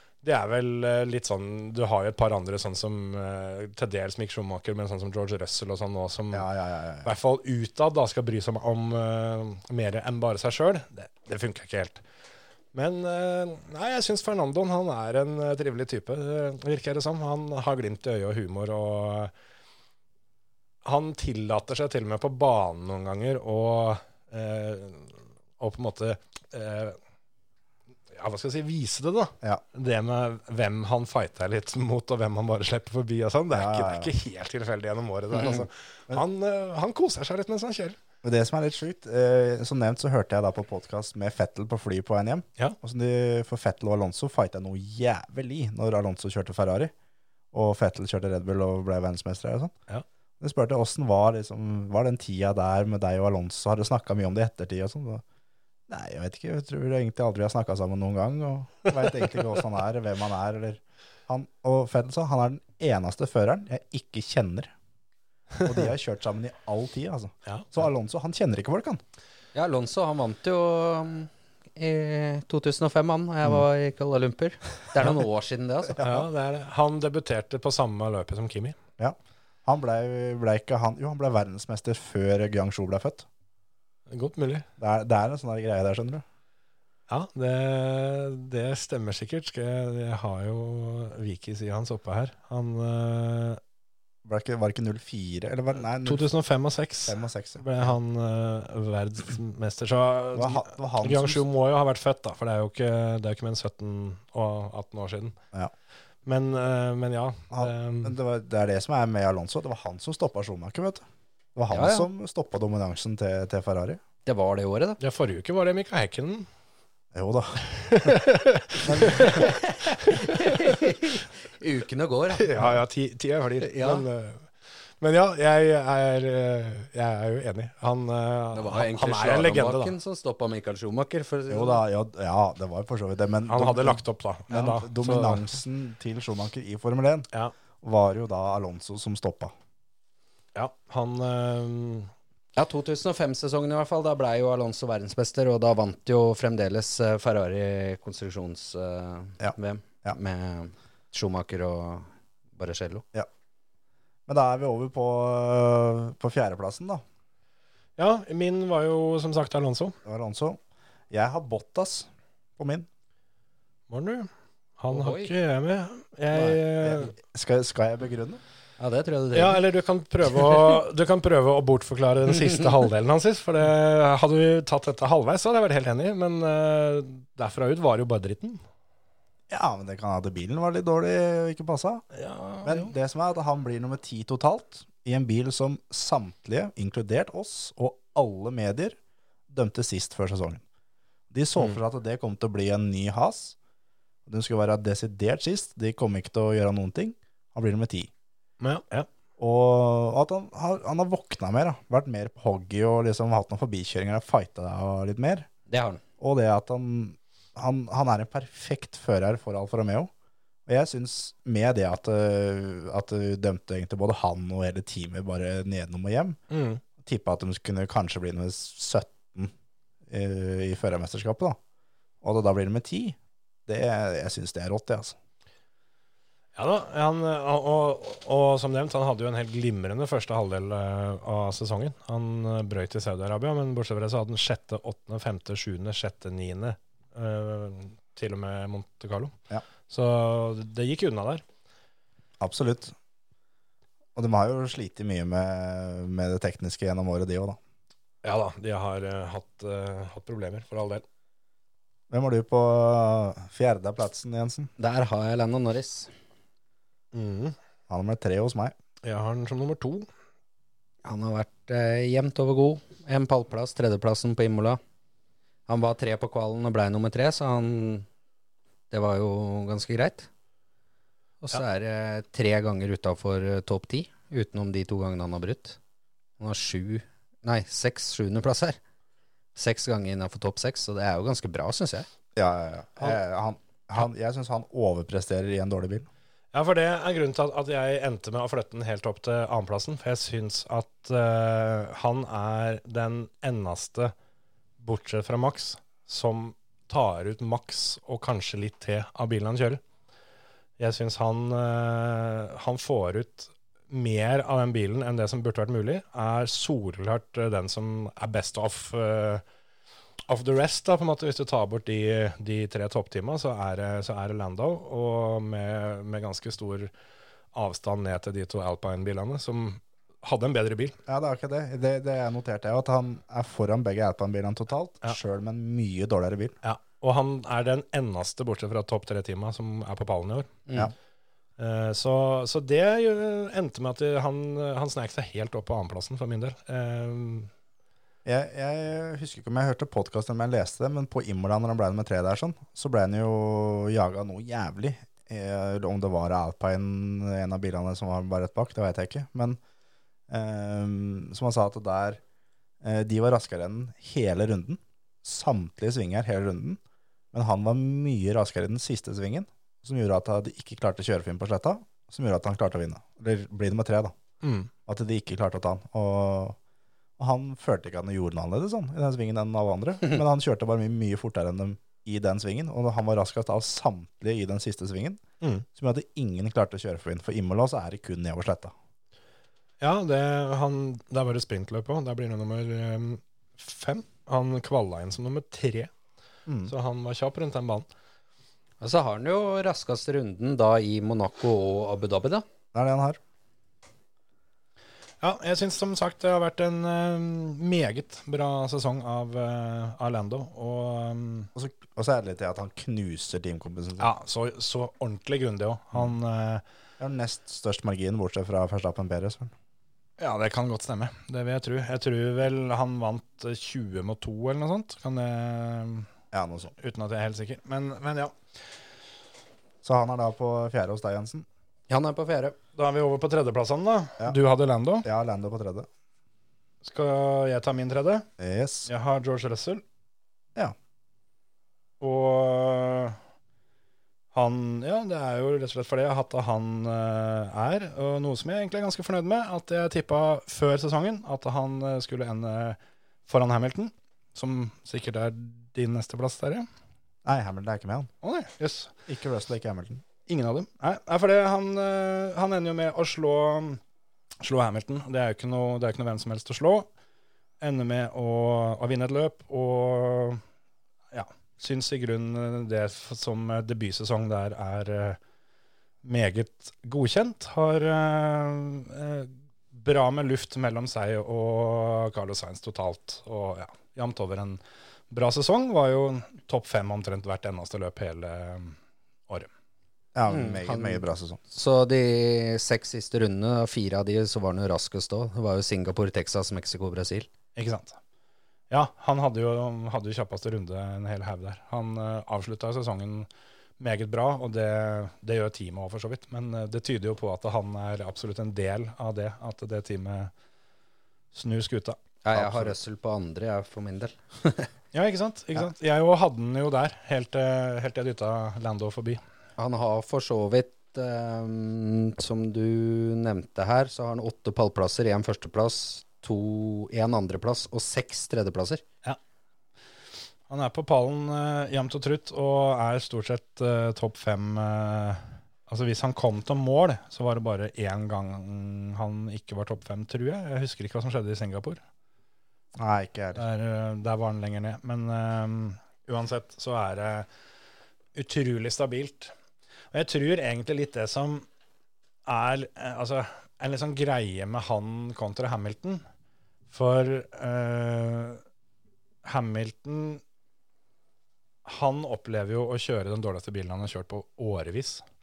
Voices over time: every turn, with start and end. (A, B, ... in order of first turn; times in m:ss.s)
0:00.2-0:06.4 A
0:06.3-0:07.2 B
0:07.0-0:12.0 A
0:12.7-0:19.3 A
0:20.8-0:27.0 A
0:28.1-0:38.0 A
0:33.5-0:34.1 B
0:38.2-0:46.9 B
0:47.5-0:49.7 B
0:50.4-0:55.2 B
0:55.9-1:04.7 B
1:05.6-1:09.0 B
1:09.5-1:16.0 C
1:16.0-1:16.2 B
1:16.0-1:18.8 A
1:19.0-1:23.2 B
1:24.1-1:24.6 A
1:24.8-1:26.2 B
1:27.1-1:33.6 A
1:34.2-1:36.3 B
1:36.0-1:45.4 A
1:37.0-1:37.6 B
1:40.3-1:41.4 B
1:46.2-1:48.2 A
1:47.5-1:54.0 B
1:51.7-1:52.1 C
1:54.2-1:55.0 C
1:55.0-1:56.5 A
1:57.1-1:58.2 B
1:57.7-1:59.5 A
1:58.8-1:59.5 B
1:59.0-2:02.8 C
2:00.1-2:00.8 A
2:02.4-2:09.9 A
2:03.6-2:04.0 C
2:08.5-2:11.8 C
2:11.5-2:17.3 B
2:13.5-2:15.5 A
2:17.8-2:19.5 B
2:20.5-2:22.1 A
2:22.6-2:33.0 C
2:29.4-2:30.2 B
2:34.3-2:37.0 B
2:38.0-2:39.9 A
2:40.0-2:40.6 B
2:41.1-2:42.9 B
2:43.9-2:44.3 A
2:44.8-2:47.1 A
2:44.9-2:45.3 C
2:46.3-2:48.4 B
2:48.8-2:49.6 C
2:49.3-2:58.6 A
2:59.5-3:02.0 B
3:02.1-3:02.9 A
3:02.6-3:09.0 B
3:09.5-3:10.6 B
3:11.3-3:13.6 B
3:14.2-3:18.1 B
3:18.6-3:19.1 A
3:19.4-3:25.5 B
3:25.7-3:26.0 C
3:26.2-3:30.1 B
3:30.7-3:36.4 B
3:36.5-3:36.8 A
3:37.0-3:39.5 B
3:40.1-3:41.6 B
3:42.2-3:45.2 B
3:46.5-3:59.3 A
3:59.9-4:01.4 A
4:02.4-4:02.9 B
4:04.2-4:07.6 B
4:08.2-4:11.0 A
4:12.1-4:14.7 B
4:14.8-4:16.1 C
4:17.1-4:17.6 A
4:17.9-4:18.7 B
4:19.0-4:20.1 A
4:21.0-4:24.8 C
4:25.7-4:28.0 C
4:28.9-4:30.3 C
4:31.4-4:35.8 C
4:36.4-4:38.8 C
4:39.6-4:42.1 C
4:42.3-4:46.1 B
4:46.5-4:54.1 A
4:54.8-4:59.8 A
5:00.8-5:09.4 A
5:10.3-5:16.9 A
5:17.5-5:21.0 A
5:21.1-5:26.6 B
5:26.6-5:30.6 A
5:31.6-5:37.5 A
5:38.2-5:49.6 B
5:50.3-5:52.2 B
5:52.8-5:56.8 B
5:57.3-6:04.1 B
6:04.4-6:04.7 A
6:04.8-6:06.6 B
6:07.2-6:15.2 B
6:15.7-6:18.7 B
6:19.8-6:25.9 A
6:26.5-6:26.7 B
6:26.7-6:27.9 A
6:28.8-6:32.4 C
6:32.7-6:33.2 B
6:35.2-6:41.5 A
6:41.5-6:44.1 B
6:44.0-6:46.6 A
6:47.0-6:49.5 B
6:50.2-6:56.1 A
6:56.3-6:56.7 B
6:56.8-6:58.3 A
6:59.8-7:01.4 B
7:01.9-7:02.6 C
7:02.8-7:05.1 A
7:05.0-7:05.9 B
7:06.8-7:08.2 A
7:08.4-7:08.9 B
7:08.9-7:09.8 A
7:12.0-7:13.2 A
7:14.3-7:26.6 A
7:27.2-7:28.1 B
7:28.2-7:28.9 A
7:29.1-7:30.0 B
7:30.3-7:33.8 A
7:34.4-7:36.9 A
7:37.6-7:40.4 A
7:41.1-7:45.2 A
7:46.0-7:54.6 A
7:55.1-7:58.7 A
8:00.1-8:01.4 B
8:00.3-8:07.3 C
8:07.6-8:08.0 A
8:08.7-8:13.3 A
8:13.8-8:20.3 A
8:21.3-8:22.5 A
8:22.2-8:24.7 C
8:24.9-8:29.2 A
8:29.6-8:38.8 C
8:40.5-8:51.8 A
8:52.8-8:53.4 B
8:53.3-8:57.2 A
8:58.1-8:59.3 A
8:59.9-9:01.5 A
9:02.2-9:06.0 A
9:06.7-9:08.4 A
9:09.2-9:10.2 A
9:11.6-9:15.0 A